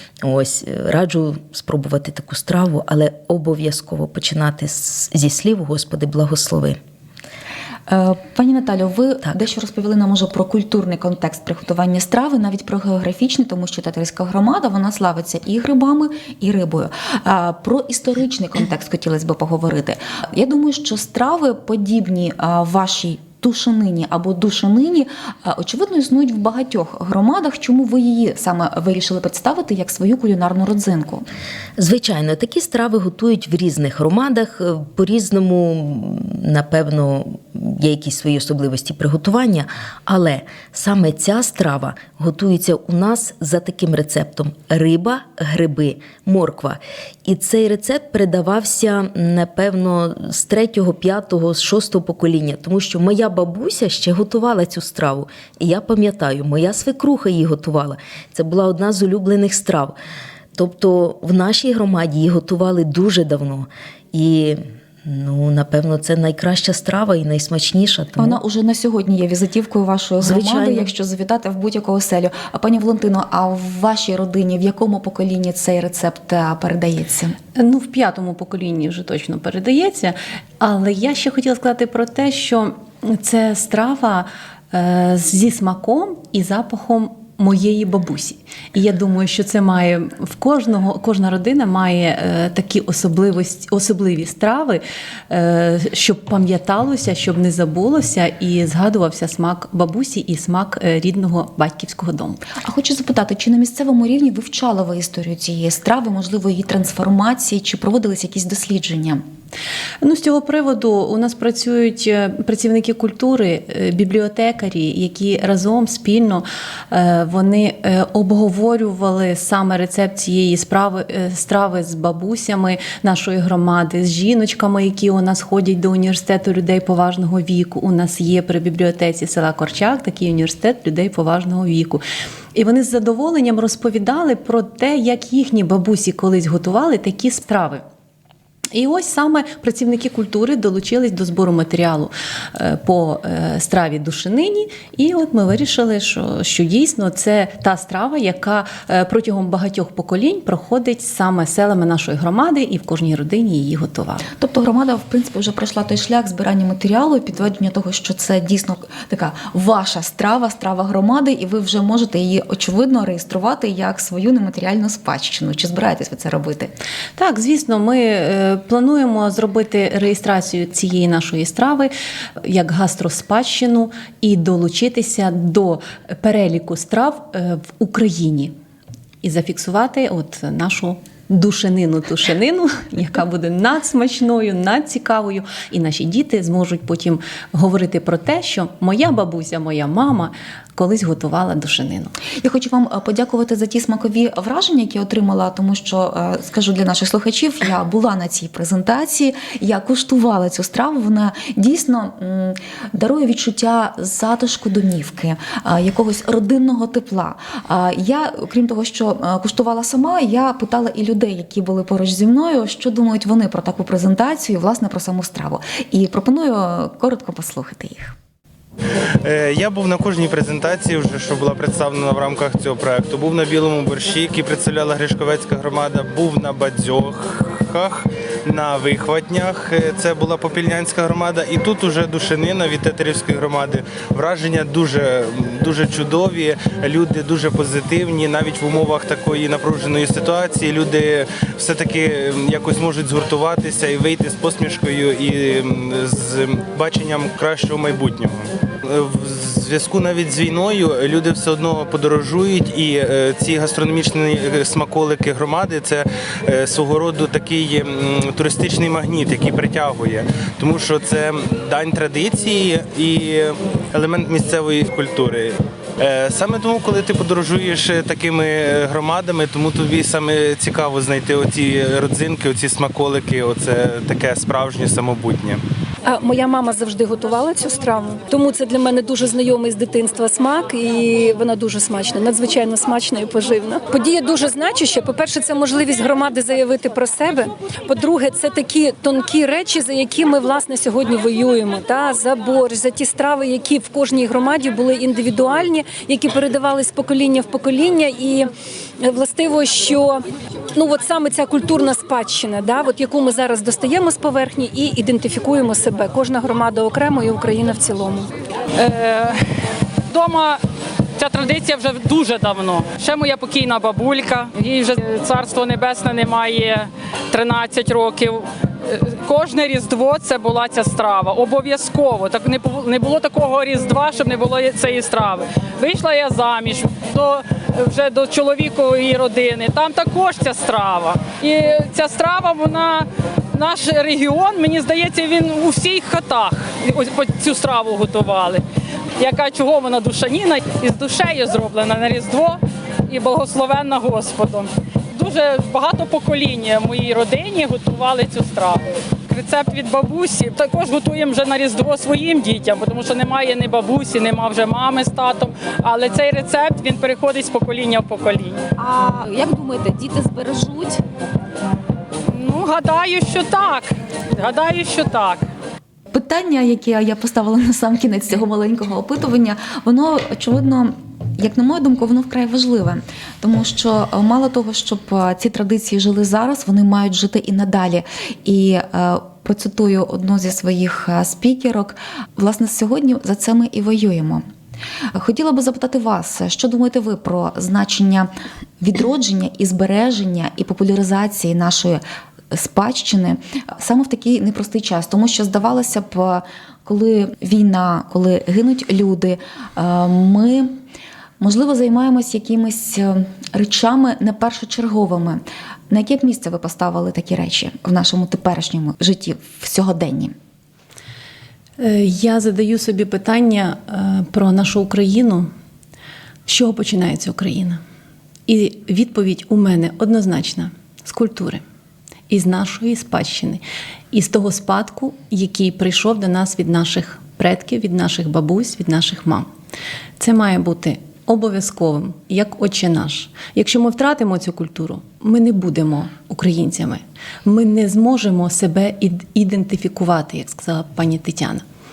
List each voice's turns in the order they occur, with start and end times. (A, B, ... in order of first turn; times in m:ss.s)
0:00.2-0:06.8 A
0:07.9-0:31.2 B
0:31.8-0:59.9 A
1:00.5-1:08.4 A
1:08.2-1:17.4 B
1:10.2-1:10.9 A
1:17.6-1:42.5 C
1:42.6-1:49.2 B
1:50.0-2:12.0 C
2:12.5-2:17.8 C
2:18.7-2:34.3 C
2:34.4-2:46.7 B
2:47.2-2:51.9 C
2:52.4-2:58.5 C
2:59.2-3:12.1 C
3:12.4-3:38.1 B
3:39.2-4:08.3 D
4:08.9-4:25.5 D
4:26.0-4:35.6 D
4:36.0-5:00.2 E
5:00.7-5:08.3 E
5:08.8-5:09.4 F
5:10.1-5:10.6 F
5:11.2-5:38.6 F
5:39.2-5:58.6 F
5:58.8-6:01.0 G
6:02.3-6:05.4 F
6:06.1-6:24.4 B
6:25.1-6:28.3 B
6:28.8-6:32.0 B
6:32.5-6:40.7 B
6:41.4-6:50.3 B
6:51.8-6:55.5 C
6:56.5-6:57.8 C
6:58.5-7:01.6 C
7:02.3-7:09.5 C
7:10.2-7:21.6 C